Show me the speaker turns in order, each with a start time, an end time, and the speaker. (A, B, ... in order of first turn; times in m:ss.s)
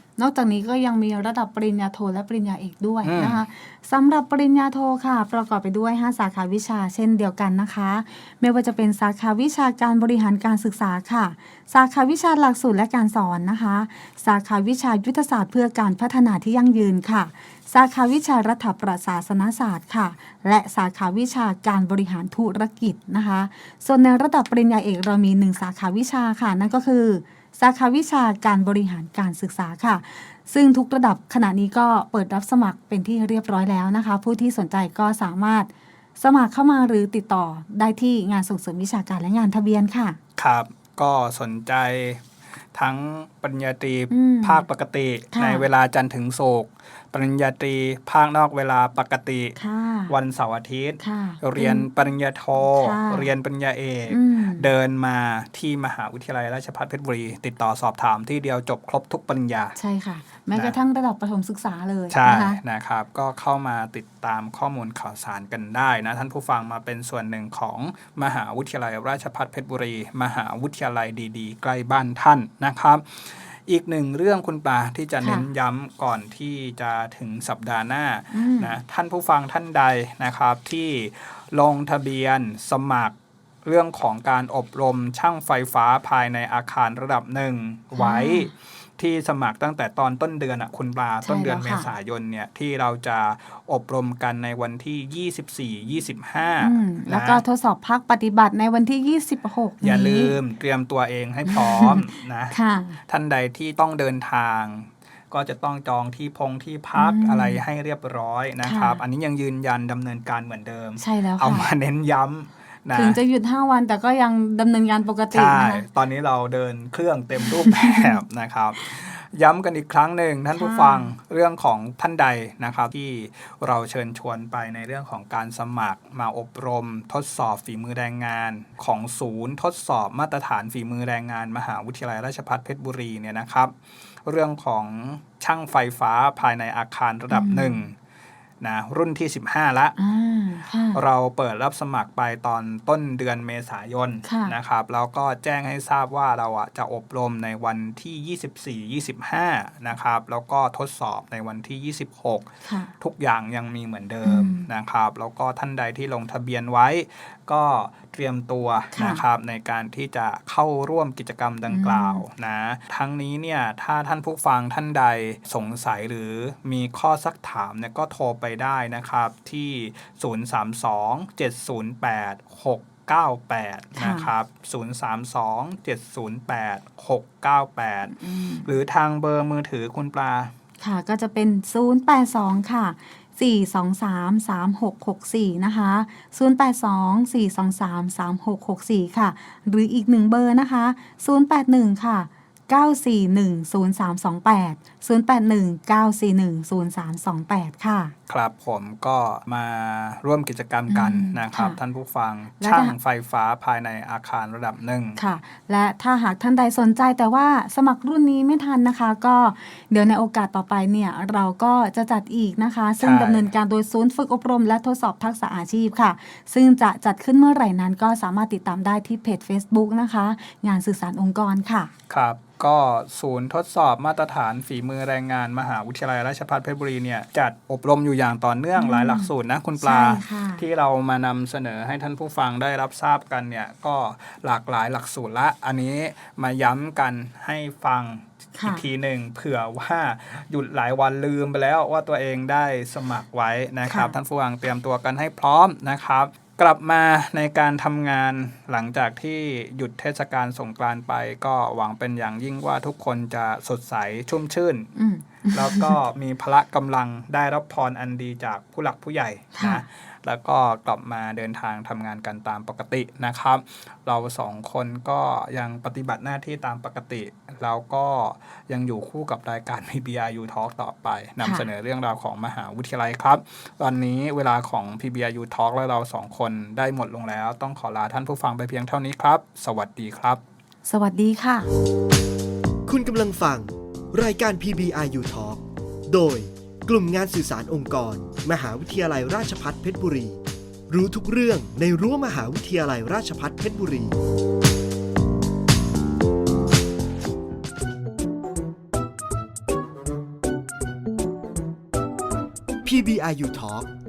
0:00.2-0:40.2 A
0:03.0-0:03.4 B
0:40.4-0:49.6 B
0:44.1-0:44.6 A
0:45.3-0:45.6 A
0:49.6-0:50.1 A
0:50.1-0:59.8 B
0:51.0-0:51.9 A
0:52.6-0:53.3 A
0:54.1-0:54.7 A
0:59.8-1:02.6 A
1:02.1-1:37.4 B
1:15.2-1:15.5 A
1:18.3-1:18.8 A
1:28.0-1:28.5 A
1:31.2-1:31.9 A
1:36.6-1:40.4 A
1:39.8-1:53.2 B
1:41.4-1:43.0 A
1:46.9-1:47.6 A
1:48.6-1:49.0 A
1:51.0-1:51.7 A
1:52.9-1:55.8 A
1:55.3-2:13.7 B
1:57.4-1:58.2 A
2:00.5-2:01.1 A
2:14.2-2:17.9 B
2:17.3-2:17.8 A
2:18.6-2:20.0 B
2:20.0-2:21.0 A
2:20.9-3:00.5 B
2:24.2-2:24.5 A
2:32.6-2:32.9 A
2:34.2-2:34.7 A
2:38.9-2:39.2 A
2:41.7-2:42.2 A
2:54.0-2:54.3 A
2:58.1-2:58.7 A
3:00.8-3:18.1 A
3:18.3-3:25.2 B
3:20.9-3:21.8 A
3:22.6-3:22.9 A
3:25.2-3:41.9 A
3:33.0-3:33.5 B
3:42.1-4:14.9 B
3:48.8-3:50.6 A
3:58.6-3:58.8 A
4:03.9-4:04.2 A
4:15.0-4:16.0 A
4:15.5-4:40.4 B
4:19.5-4:19.8 A
4:31.4-4:31.7 A
4:40.8-4:41.7 A
4:42.8-4:54.1 C
5:02.8-5:03.9 C